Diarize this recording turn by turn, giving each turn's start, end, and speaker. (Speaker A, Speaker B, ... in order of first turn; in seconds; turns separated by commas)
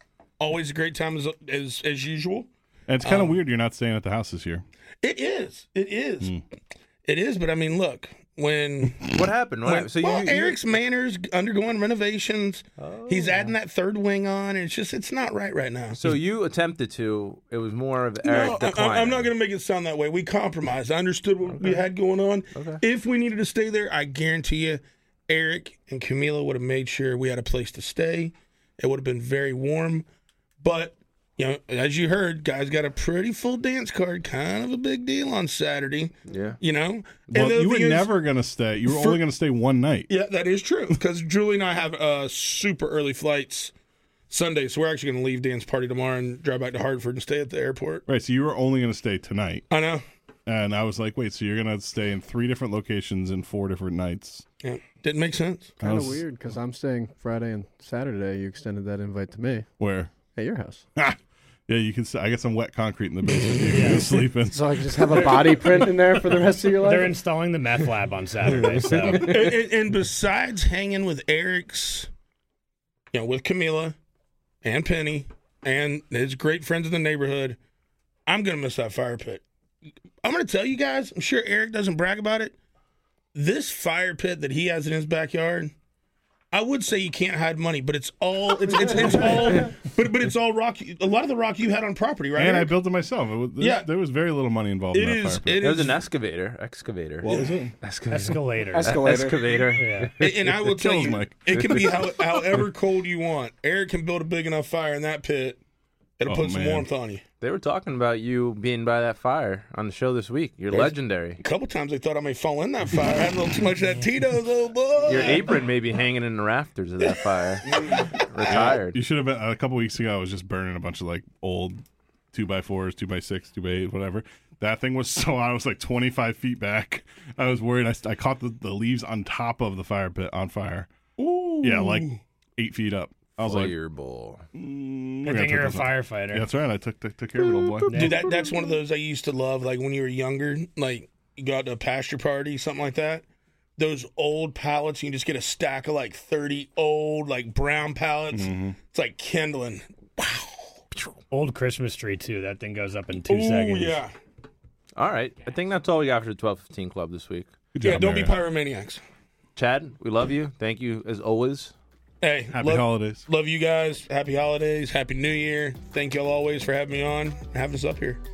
Speaker A: 0.4-2.5, Speaker B: 2.9-4.6, Speaker A: 3.0-3.4, Speaker A: 5.0-6.3, Speaker A: 7.0-16.0, Speaker C: 9.1-10.6, Speaker C: 12.8-13.5, Speaker C: 16.0-19.3, Speaker A: 18.2-30.1, Speaker C: 21.5-21.9, Speaker C: 22.5-22.8, Speaker A: 30.6-38.2, Speaker C: 36.3-36.6, Speaker B: 37.3-40.1, Speaker A: 38.8-39.2, Speaker A: 40.1-43.7, Speaker A: 44.3-48.0, Speaker B: 48.1-49.7, Speaker A: 49.7-50.0, Speaker B: 50.5-54.5, Speaker A: 54.6-55.8, Speaker D: 55.8-59.7, Speaker B: 55.8-56.2, Speaker B: 59.8-60.1, Speaker D: 60.3-60.9, Speaker B: 61.0-65.3, Speaker E: 63.7-64.0, Speaker D: 64.5-67.2, Speaker E: 66.8-69.3, Speaker D: 68.9-69.1, Speaker C: 68.9-69.5, Speaker A: 69.1-72.1, Speaker A: 73.1-74.0, Speaker A: 74.6-77.6, Speaker A: 78.3-79.4, Speaker A: 80.2-82.6, Speaker A: 83.3-85.7, Speaker A: 86.5-92.7, Speaker B: 92.3-95.6, Speaker A: 93.6-93.9, Speaker A: 94.9-96.0, Speaker C: 95.6-100.7, Speaker B: 97.2-97.8, Speaker A: 97.3-97.6, Speaker E: 98.1-99.0, Speaker D: 98.7-99.6, Speaker E: 99.7-100.1, Speaker A: 100.2-105.6, Speaker B: 100.5-101.9, Speaker C: 101.5-102.6, Speaker A: 106.2-107.2, Speaker B: 106.3-106.9, Speaker C: 107.4-111.4, Speaker A: 110.7-115.6, Speaker C: 115.0-119.0, Speaker A: 117.0-118.7, Speaker B: 118.5-121.8, Speaker B: 122.3-130.9, Speaker A: 131.2-132.2, Speaker B: 131.6-133.8, Speaker C: 133.4-134.4, Speaker B: 134.5-138.1, Speaker E: 135.2-136.5, Speaker C: 137.4-138.8, Speaker E: 137.9-138.2, Speaker A: 137.9-143.2, Speaker A: 143.8-150.8, Speaker B: 148.3-148.8, Speaker E: 151.3-154.0, Speaker A: 153.3-154.1, Speaker C: 155.0-157.5, Speaker B: 157.7-158.4, Speaker A: 157.8-159.0, Speaker C: 159.6-161.7, Speaker A: 162.2-168.2, Speaker B: 162.5-163.3